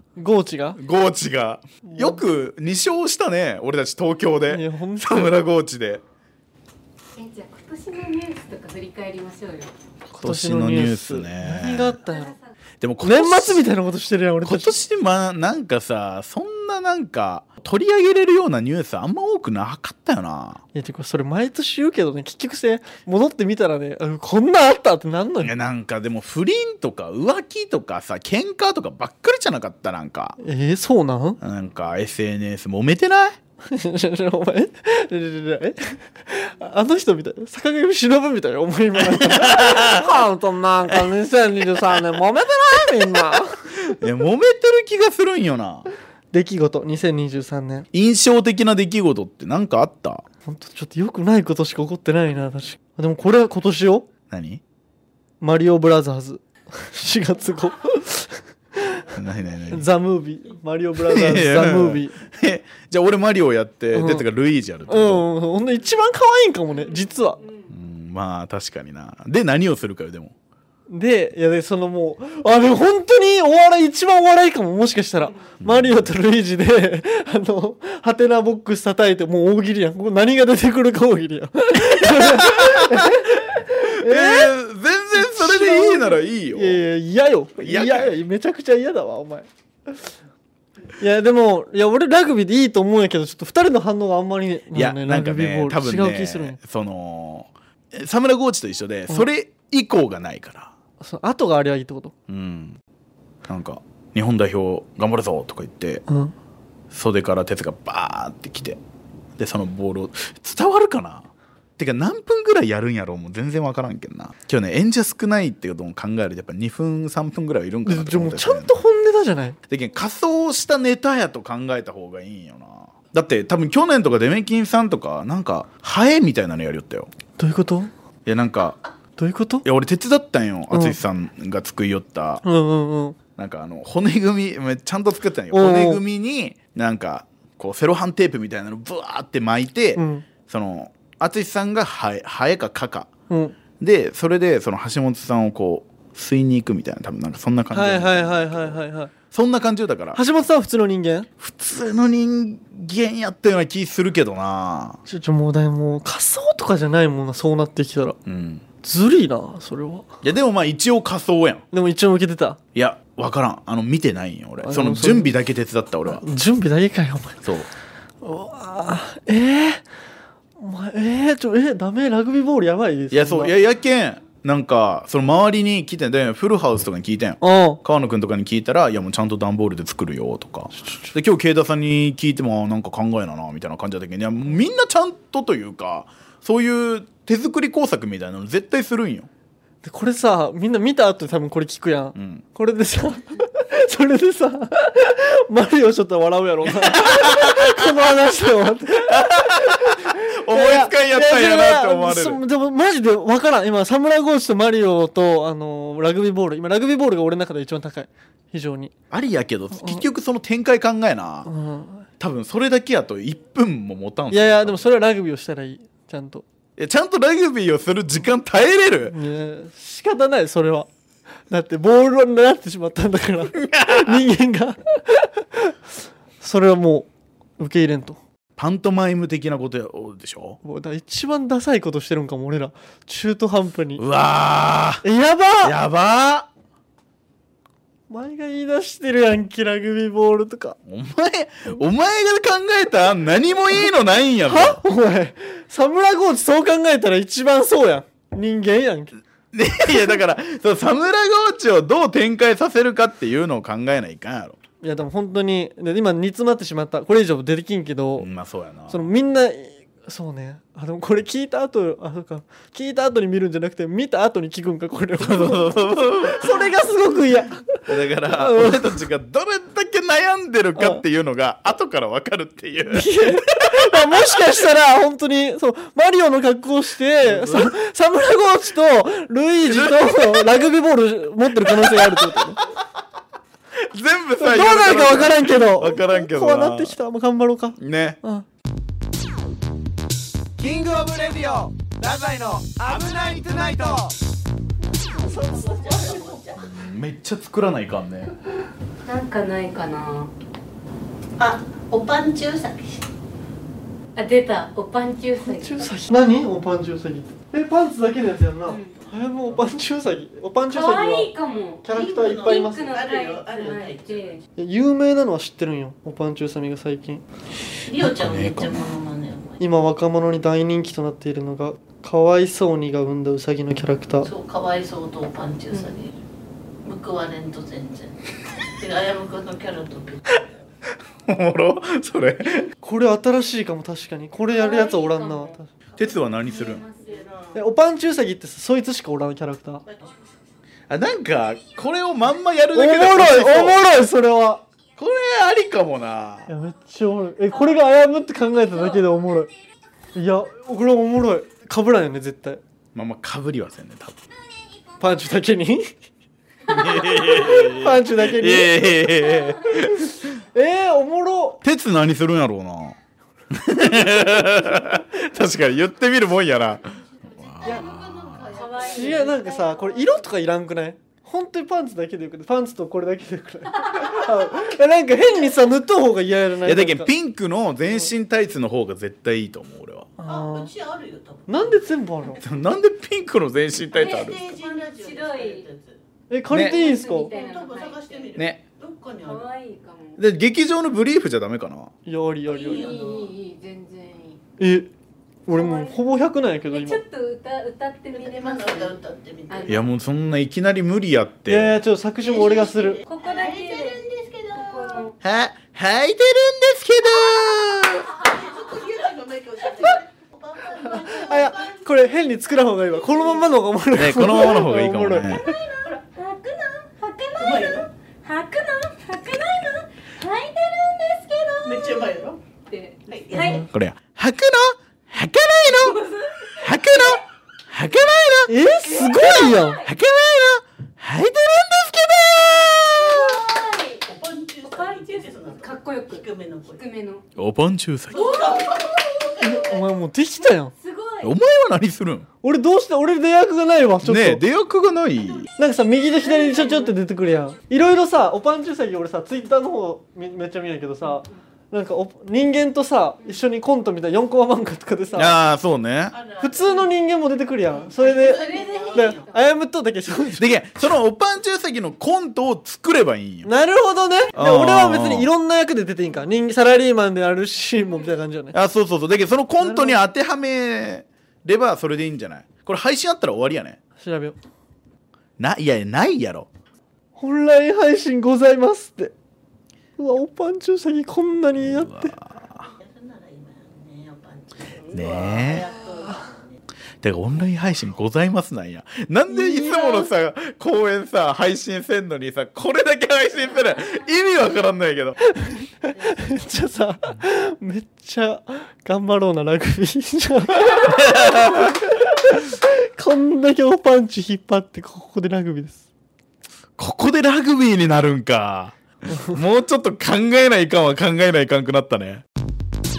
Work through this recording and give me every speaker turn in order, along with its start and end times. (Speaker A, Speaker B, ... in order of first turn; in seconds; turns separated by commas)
Speaker A: 0.1-0.8, Speaker B: 0.8-6.0, Speaker A: 1.8-2.2, Speaker A: 4.5-5.3, Speaker C: 7.1-9.7, Speaker A: 10.1-12.3, Speaker B: 10.2-11.9, Speaker C: 12.0-12.4, Speaker B: 12.8-13.6, Speaker A: 13.0-14.8, Speaker B: 14.4-20.6, Speaker A: 20.7-25.5, Speaker B: 25.4-30.4, Speaker A: 30.4-31.4, Speaker B: 31.4-33.4, Speaker A: 33.6-43.7, Speaker B: 39.0-40.2, Speaker B: 43.8-45.9, Speaker A: 46.3-47.9, Speaker B: 47.9-50.2, Speaker A: 50.5-54.1, Speaker B: 54.3-54.6, Speaker A: 55.4-59.1, Speaker B: 59.1-59.9, Speaker A: 59.7-62.2, Speaker B: 61.0-65.3, Speaker A: 63.9-64.2, Speaker A: 64.9-67.4, Speaker B: 67.7-70.3, Speaker A: 70.9-84.5, Speaker B: 75.6-76.1, Speaker B: 81.8-86.8, Speaker A: 85.1-90.0, Speaker B: 87.6-88.2, Speaker A: 91.0-96.6, Speaker B: 94.7-100.7, Speaker A: 101.0-102.1, Speaker B: 102.3-102.8, Speaker B: 103.5-106.0, Speaker A: 106.1-106.3, Speaker B: 106.9-108.8, Speaker B: 109.4-118.7, Speaker A: 117.8-119.6, Speaker B: 119.7-127.1, Speaker A: 127.4-127.9, Speaker B: 128.2-128.8, Speaker A: 129.2-129.7, Speaker B: 129.6-132.4, Speaker A: 130.7-131.0, Speaker A: 132.4-133.2, Speaker B: 133.4-143.1, Speaker A: 135.5-136.0, Speaker A: 139.9-140.2, Speaker A: 143.3-143.6, Speaker B: 143.8-148.8, Speaker A: 147.7-149.1, Speaker B: 149.3-150.2, Speaker A: 150.1-151.3, Speaker B: 151.4-155.0, Speaker A: 155.1-158.2, Speaker B: 158.2-158.6, Speaker A: 158.8-160.1, Speaker B: 160.2-161.6, Speaker A: 161.7-162.6, Speaker B: 162.7-166.2, Speaker A: 164.6-165.3, Speaker A: 166.1-167.4, Speaker A: 168.2-169.8, Speaker A: 170.6-173.5, Speaker B: 173.1-189.3, Speaker A: 177.4-177.8, Speaker A: 180.8-181.1, Speaker A: 189.8-208.9, Speaker B: 192.2-192.4, Speaker B: 196.6-197.9, Speaker B: 198.9-202.4, Speaker B: 209.1-211.5, Speaker A: 209.7-210.0, Speaker A: 211.4-212.1, Speaker B: 212.2-214.8, Speaker A: 214.3-216.4, Speaker B: 216.8-219.2, Speaker A: 219.1-220.9, Speaker A: 221.5-227.1, Speaker B: 223.5-224.2, Speaker A: 227.6-228.2, Speaker B: 228.6-230.6, Speaker A: 230.6-234.0, Speaker B: 234.0-235.0, Speaker A: 235.0-235.8, Speaker B: 235.6-236.5, Speaker A: 238.1-240.8, Speaker B: 240.9-244.8, Speaker A: 244.4-249.2, Speaker B: 249.5-254.6, Speaker A: 254.8-258.3, Speaker B: 258.2-259.0, Speaker A: 258.9-265.7, Speaker B: 265.2-266.6, Speaker A: 266.2-269.0, Speaker B: 267.9-274.5, Speaker A: 270.8-271.0, Speaker A: 272.9-282.6, Speaker B: 277.2-277.7, Speaker B: 279.6-280.6, Speaker B: 281.6-282.4, Speaker B: 283.7-286.9, Speaker A: 284.4-288.4, Speaker B: 287.8-288.2, Speaker D: 290.6-294.1, Speaker E: 295.1-296.6, Speaker A: 295.1-296.3, Speaker B: 296.6-298.3, Speaker C: 299.0-300.3, Speaker E: 301.4-303.1, Speaker C: 304.1-306.0, Speaker A: 305.4-311.3, Speaker C: 308.7-309.0, Speaker E: 309.1-309.5, Speaker C: 310.6-314.4, Speaker A: 311.8-312.9, Speaker E: 311.9-314.4, Speaker A: 314.6-317.2, Speaker E: 317.8-319.6, Speaker B: 318.0-318.8, Speaker A: 319.6-324.3, Speaker E: 324.2-326.2, Speaker E: 326.8-328.2, Speaker E: 328.8-330.5, Speaker B: 331.2-332.7, Speaker A: 332.8-335.7, Speaker C: 334.5-335.6, Speaker B: 336.0-336.8, Speaker C: 336.5-337.2, Speaker E: 336.7-337.6, Speaker A: 337.5-339.8, Speaker E: 339.9-340.2, Speaker B: 340.9-343.8, Speaker A: 342.7-344.6, Speaker B: 345.0-346.5, Speaker A: 346.5-349.5, Speaker A: 350.1-352.6, Speaker B: 352.9-354.2, Speaker A: 355.0-355.9, Speaker B: 356.6-360.2, Speaker A: 357.1-359.0, Speaker A: 360.0-361.6, Speaker B: 361.6-363.0, Speaker B: 363.5-368.5, Speaker E: 367.1-369.4, Speaker C: 367.6-370.2, Speaker A: 368.8-377.1, Speaker B: 376.6-380.1, Speaker A: 380.2-380.7, Speaker E: 380.2-381.8, Speaker A: 381.5-382.4, Speaker B: 382.4-384.4, Speaker E: 383.9-386.0, Speaker C: 384.0-385.7, Speaker A: 386.3-387.3, Speaker B: 386.5-386.8, Speaker C: 386.5-388.3, Speaker E: 387.1-389.5, Speaker B: 388.3-388.6, Speaker C: 389.2-390.2, Speaker B: 390.2-391.9, Speaker A: 392.1-393.0, Speaker E: 392.5-393.3, Speaker C: 392.5-394.4, Speaker A: 394.6-394.9, Speaker A: 395.4-397.0, Speaker C: 395.5-396.0, Speaker C: 396.7-398.9, Speaker E: 398.1-399.8, Speaker C: 399.5-399.8, Speaker B: 399.7-401.8, Speaker A: 401.5-403.0, Speaker E: 402.2-405.1, Speaker C: 403.1-405.1, Speaker B: 405.2-408.1, Speaker E: 408.1-412.4, Speaker A: 410.8-415.5, Speaker B: 413.9-415.5, Speaker C: 415.2-422.1, Speaker E: 417.4-417.9, Speaker E: 421.6-422.4, Speaker C: 422.7-423.7, Speaker E: 423.1-423.6, Speaker A: 423.4-423.6, Speaker B: 423.7-426.0, Speaker C: 425.7-427.2, Speaker B: 426.5-433.4, Speaker A: 428.5-429.8, Speaker C: 428.9-429.8, Speaker C: 433.0-434.0, Speaker E: 434.0-436.9, Speaker C: 434.7-437.2, Speaker B: 437.4-438.3, Speaker E: 438.1-439.9, Speaker C: 438.1-438.8, Speaker A: 439.4-440.7, Speaker C: 440.7-441.3, Speaker B: 441.2-442.3, Speaker A: 442.4-444.4, Speaker B: 444.0-445.5, Speaker A: 445.6-455.4, Speaker C: 446.2-447.0, Speaker B: 455.1-456.1, Speaker E: 456.1-456.9, Speaker A: 456.4-460.6, Speaker E: 457.8-459.3, Speaker C: 458.1-459.4, Speaker B: 460.4-463.5, Speaker A: 463.4-468.6, Speaker B: 464.3-465.3, Speaker B: 468.5-473.8, Speaker A: 469.6-470.0, Speaker A: 474.0-474.4, Speaker B: 475.4-476.5, Speaker A: 477.2-479.1, Speaker A: 480.0-482.1, Speaker B: 481.6-482.7, Speaker E: 482.6-486.6, Speaker B: 484.9-485.7, Speaker B: 487.0-495.2, Speaker E: 489.5-490.0, Speaker A: 495.3-505.8, Speaker E: 495.9-496.4, Speaker B: 500.6-501.9, Speaker B: 506.8-512.2, Speaker A: 509.1-509.4